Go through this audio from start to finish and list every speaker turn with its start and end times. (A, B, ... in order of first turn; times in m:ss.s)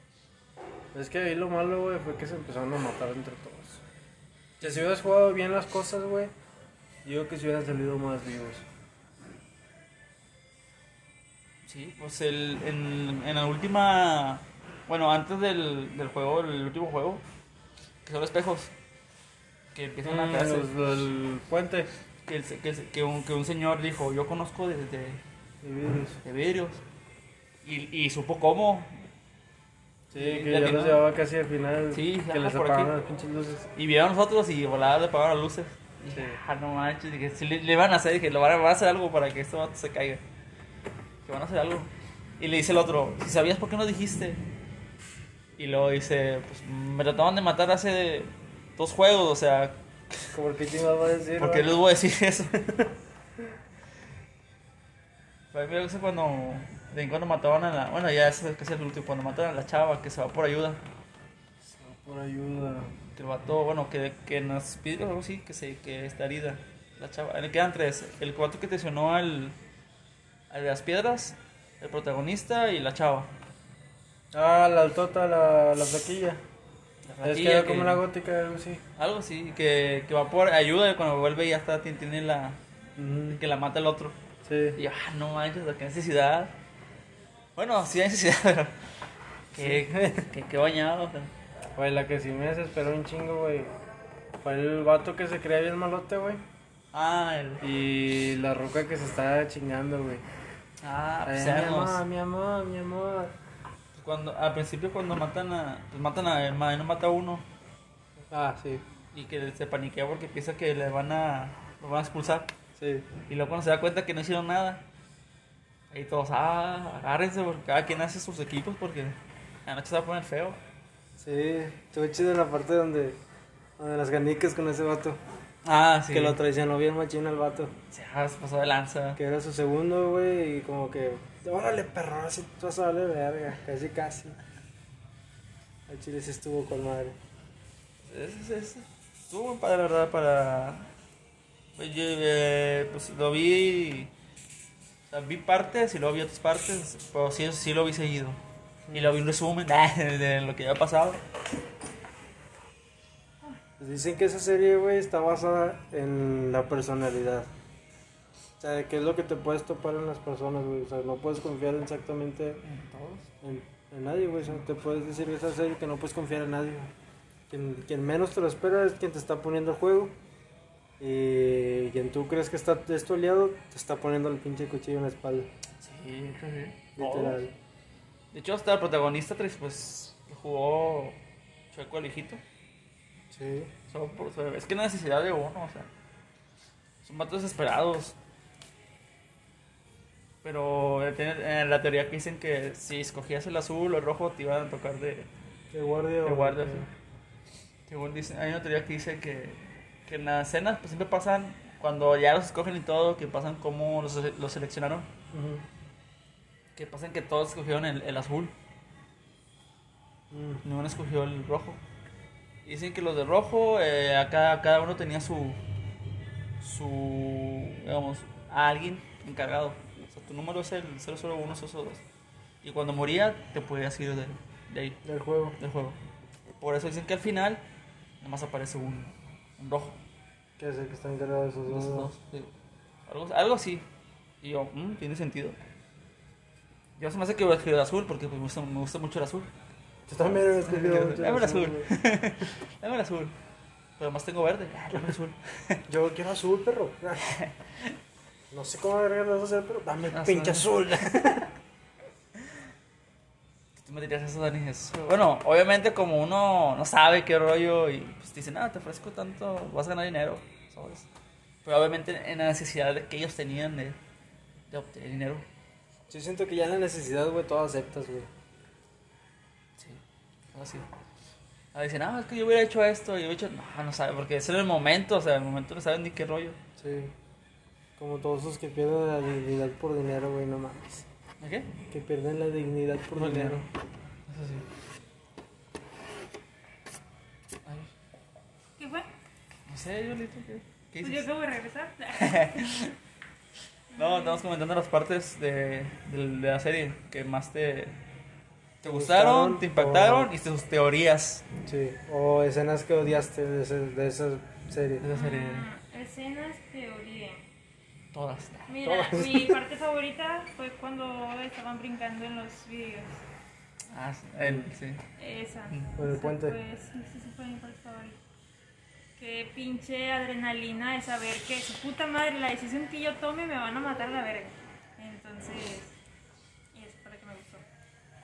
0:00.9-0:03.8 A
0:04.6-0:04.9 B
0:04.6-0:06.3 A
0:07.0-0:08.7 A
0:11.6-0:17.2 B
0:18.0-0:18.7 B
0:19.7-0:20.7 B
0:20.0-0:21.9 A
0:22.3-0:25.2 B
0:25.6-0:26.2 A
0:26.2-0:26.8 B
0:27.6-0:29.0 B
0:30.1-0:33.7 A
0:30.2-0:31.0 B
0:31.9-0:32.9 B
0:33.8-0:40.2 B
0:36.1-0:36.4 A
0:41.2-0:44.4 B
0:45.6-0:49.8 B
0:50.3-0:51.7 A
0:51.4-0:52.5 B
0:52.6-0:52.9 A
0:55.5-1:00.8 B
1:01.6-1:02.9 A
1:03.2-1:09.6 B
1:10.5-1:13.3 B
1:14.3-1:16.4 A
1:17.1-1:18.0 B
1:17.2-1:18.8 A
1:19.0-1:22.6 B
1:23.0-1:23.4 A
1:23.3-1:24.2 B
1:24.4-1:24.8 A
1:24.8-1:26.5 B
1:27.6-1:28.9 B
1:29.5-1:31.3 B
1:29.6-1:30.3 A
1:31.8-1:33.7 A
1:34.4-1:36.4 A
1:36.9-1:37.6 B
1:37.6-1:40.2 A
1:40.8-1:42.0 B
1:41.2-1:43.3 A
1:43.9-1:47.4 B
1:48.3-1:48.8 A
1:49.1-1:52.5 B
1:52.8-1:53.1 A
1:53.3-1:54.8 B
1:55.9-2:00.6 B
2:01.2-2:03.2 A
2:03.8-2:05.2 A
2:05.6-2:06.4 B
2:06.1-2:07.7 A
2:07.9-2:09.2 B
2:09.2-2:14.4 A
2:15.9-2:17.2 A
2:18.1-2:20.9 B
2:21.8-2:24.1 B
2:25.1-2:28.4 B
2:28.9-2:29.1 A
2:28.9-2:31.2 B
2:33.8-2:37.5 A
2:38.6-2:42.6 A
2:42.6-2:43.3 B
2:43.4-2:46.9 A
2:47.5-2:50.1 A
2:51.0-2:55.5 A
2:55.8-2:57.4 B
2:57.0-2:57.5 A
2:58.3-3:01.2 B
3:01.7-3:02.4 B
3:03.3-3:03.7 A
3:03.9-3:05.9 B
3:07.0-3:08.2 B
3:10.4-3:15.3 B
3:15.7-3:16.9 A
3:16.2-3:16.9 B
3:17.9-3:25.1 B
3:25.3-3:25.6 A
3:26.8-3:28.6 B
3:30.3-3:30.6 A
3:30.6-3:31.8 B
3:32.6-3:35.6 B
3:36.6-3:42.0 B
3:42.6-3:45.0 B
3:45.0-3:45.6 A
3:45.6-3:46.0 B
3:46.6-3:47.6 B
3:48.2-3:50.0 B
3:50.6-3:52.1 A
3:51.7-3:52.5 B
3:53.1-3:53.9 B
3:54.4-3:55.6 B
3:57.0-3:59.5 B
4:00.1-4:01.9 A
4:00.2-4:03.3 B
4:04.0-4:05.8 B
4:05.9-4:07.3 A
4:07.2-4:08.0 B
4:08.5-4:11.5 A
4:10.1-4:11.3 B
4:13.8-4:21.1 B
4:21.6-4:24.0 B
4:24.7-4:25.5 B
4:26.1-4:28.3 A
4:29.8-4:30.9 B
4:31.7-4:36.6 B
4:36.8-4:37.1 A
4:38.0-4:41.1 A
4:41.4-4:41.7 B
4:41.9-4:43.7 A
4:43.2-4:43.7 B
4:44.3-4:44.7 B
4:47.6-4:47.9 B
4:48.8-4:49.1 C
4:49.7-4:51.3 B
4:51.0-4:52.6 C
4:52.2-4:53.0 B
4:53.9-4:54.4 C
4:54.0-4:58.0 B
4:58.8-5:00.3 A
4:58.8-5:01.4 B
5:01.7-5:05.1 A
5:05.0-5:05.7 B
5:05.1-5:07.4 C
5:08.1-5:08.8 B
5:08.7-5:13.2 C
5:08.8-5:09.6 A
5:13.9-5:15.0 B
5:14.4-5:14.7 A
5:15.2-5:18.2 C
5:16.0-5:16.6 A
5:19.2-5:26.0 C
5:26.7-5:27.6 C